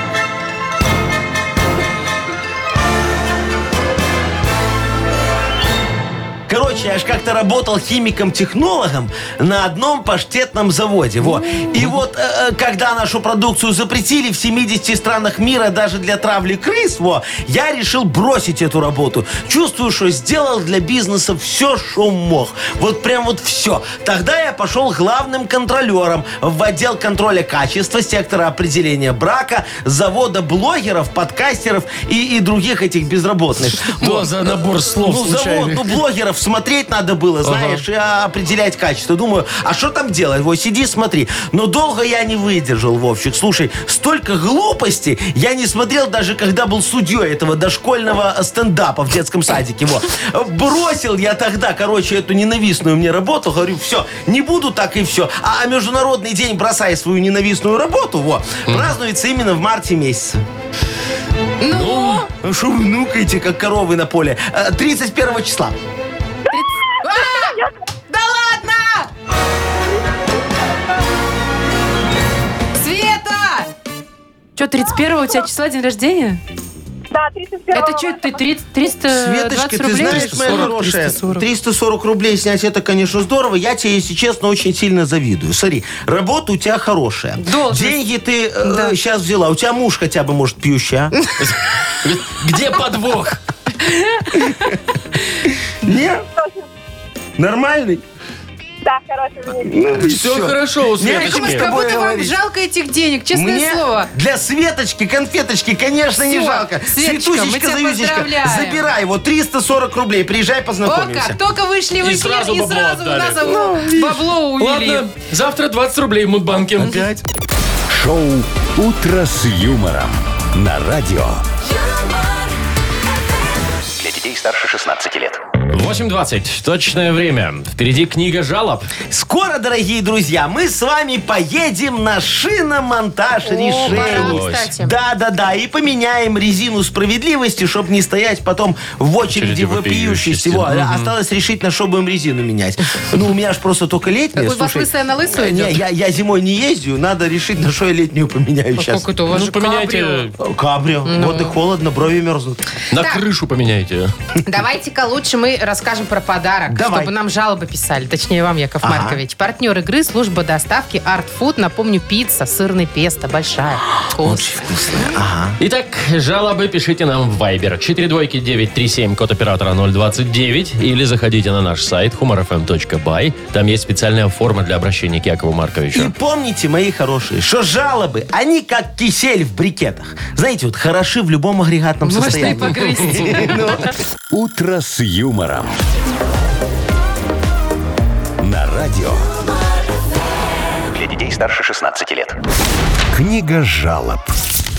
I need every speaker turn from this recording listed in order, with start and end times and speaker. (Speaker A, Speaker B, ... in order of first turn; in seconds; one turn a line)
Speaker A: 6.5-60.4
Speaker B: 33.7-36.0
Speaker B: 37.4-37.9
Speaker B: 58.7-58.9
Speaker C: 61.6-62.3
Speaker B: 61.7-62.2
Speaker A: 62.4-65.8
Speaker C: 66.5-67.6
Speaker D: 67.0-67.7
Speaker C: 68.1-69.1
Speaker C: 72.8-73.7
Speaker C: 74.6-76.4
Speaker D: 77.1-78.4
Speaker C: 77.7-81.5
Speaker A: 79.0-91.1
Speaker B: 80.0-80.7
Speaker C: 87.4-88.0
Speaker C: 88.6-89.0
Speaker B: 91.4-93.4
Speaker C: 93.8-94.9
Speaker A: 94.5-94.8
Speaker A: 95.8-96.2
Speaker D: 96.2-96.7
Speaker A: 97.4-98.0
Speaker D: 98.8-99.8
Speaker A: 99.6-102.4
Speaker B: 100.0-101.7
Speaker C: 101.1-104.1
Speaker A: 103.3-111.4
Speaker C: 106.2-108.8
Speaker C: 110.8-115.0
Speaker B: 112.0-113.6
Speaker A: 113.5-114.2
Speaker B: 114.6-117.0
Speaker A: 116.8-117.2
Speaker E: 117.9-121.5
Speaker F: 124.0-125.4
Speaker B: 125.7-128.9
Speaker A: 129.1-149.0
Speaker C: 133.4-135.0
Speaker B: 133.8-134.7
Speaker B: 139.3-141.2
Speaker C: 144.4-145.8
Speaker C: 148.8-150.3
Speaker B: 149.3-150.3
Speaker A: 150.4-152.6
Speaker C: 151.1-151.6
Speaker B: 152.9-154.1
Speaker C: 152.9-153.2
Speaker C: 154.4-165.1
Speaker A: 156.7-157.1
Speaker A: 158.8-159.2
Speaker A: 164.2-165.6
Speaker B: 165.6-176.1
Speaker A: 175.9-183.9
Speaker C: 182.0-183.6
Speaker E: 184.3-185.8
Speaker E: 188.4-189.4
Speaker F: 190.9-192.4
Speaker E: 193.1-194.3